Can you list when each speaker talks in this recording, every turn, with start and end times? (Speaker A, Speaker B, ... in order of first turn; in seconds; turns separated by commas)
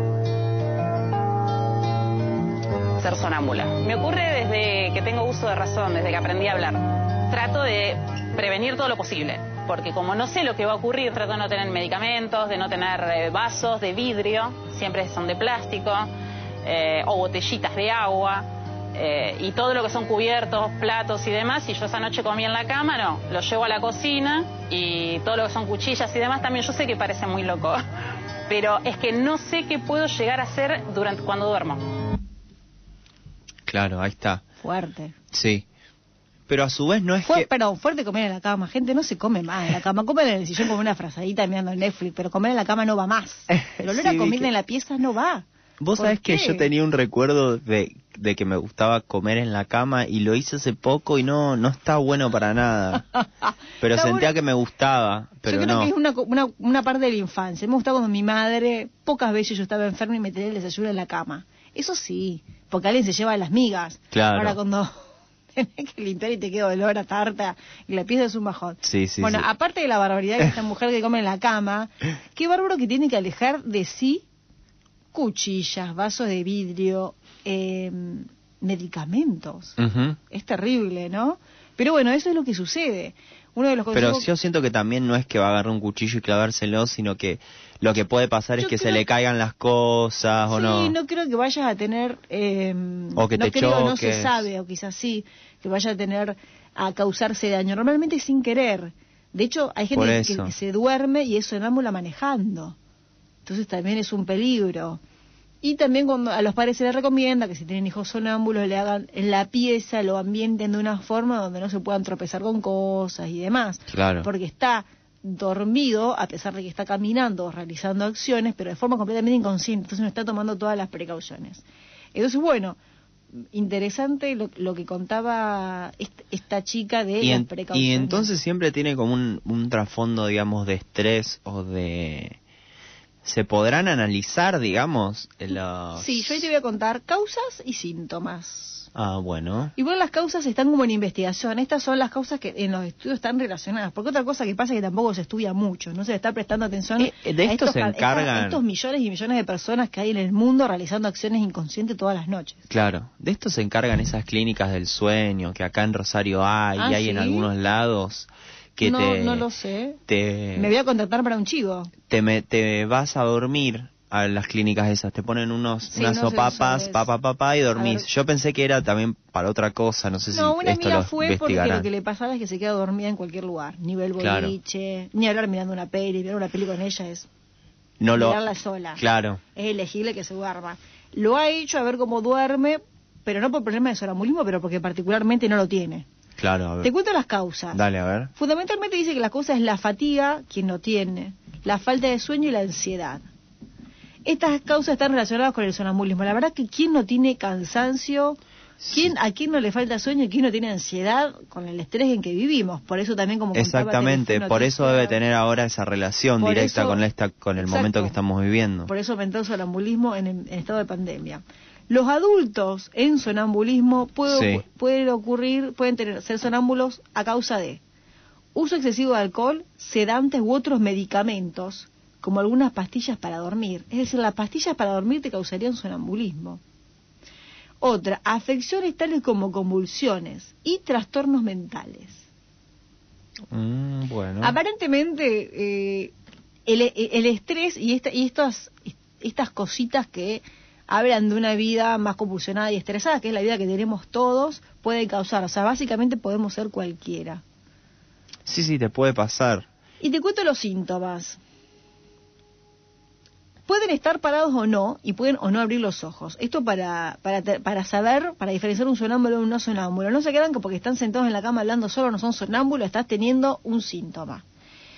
Speaker A: 3.0-16.1, Speaker A: 16.6-27.8, Speaker A: 28.5-31.8, Speaker B: 33.7-34.4, Speaker C: 34.6-35.1, Speaker B: 35.3-35.6, Speaker B: 36.5-37.5, Speaker C: 37.2-46.7, Speaker B: 43.5-44.5, Speaker B: 45.8-53.0, Speaker B: 53.8-55.9, Speaker C: 53.8-54.3, Speaker C: 55.5-65.0, Speaker B: 64.1-64.6, Speaker C: 65.5-74.2, Speaker B: 68.8-69.5, Speaker C: 75.1-79.8, Speaker B: 79.8-80.2, Speaker C: 80.3-84.3, Speaker B: 83.9-90.9, Speaker C: 88.6-89.0, Speaker C: 90.5-102.8, Speaker B: 93.1-94.5, Speaker B: 99.9-100.5, Speaker C: 103.5-105.0, Speaker C: 105.6-121.6, Speaker B: 113.9-114.3, Speaker C: 122.1-122.8, Speaker C: 123.5-128.3, Speaker B: 127.2-132.4, Speaker B: 133.2-136.5, Speaker C: 135.9-138.9, Speaker B: 138.9-139.7, Speaker C: 139.8-152.6, Speaker B: 147.0-148.6, Speaker B: 152.7-159.5, Speaker C: 156.8-157.5, Speaker C: 158.8-160.0, Speaker B: 160.1-160.7, Speaker C: 160.5-161.9, Speaker B: 162.1-171.9, Speaker C: 165.9-167.1, Speaker C: 167.8-168.0, Speaker C: 170.3-177.3, Speaker B: 174.2-174.6, Speaker B: 178.0-178.4, Speaker C: 178.1-179.0, Speaker B: 179.0-179.4, Speaker C: 179.5-186.1, Speaker B: 186.4-186.9, Speaker C: 186.8-187.8, Speaker B: 187.7-188.3, Speaker C: 188.3-193.2, Speaker C: 194.2-198.4, Speaker B: 198.8-199.1, Speaker C: 198.9-205.2, Speaker B: 203.5-208.9, Speaker C: 206.4-207.0, Speaker C: 207.6-208.2, Speaker C: 208.9-217.8, Speaker B: 214.3-214.6, Speaker C: 218.5-226.6, Speaker C: 227.8-232.2, Speaker B: 233.5-234.6, Speaker C: 234.4-236.1, Speaker C: 236.7-247.4, Speaker B: 248.4-249.7, Speaker C: 250.0-251.4, Speaker C: 253.7-264.4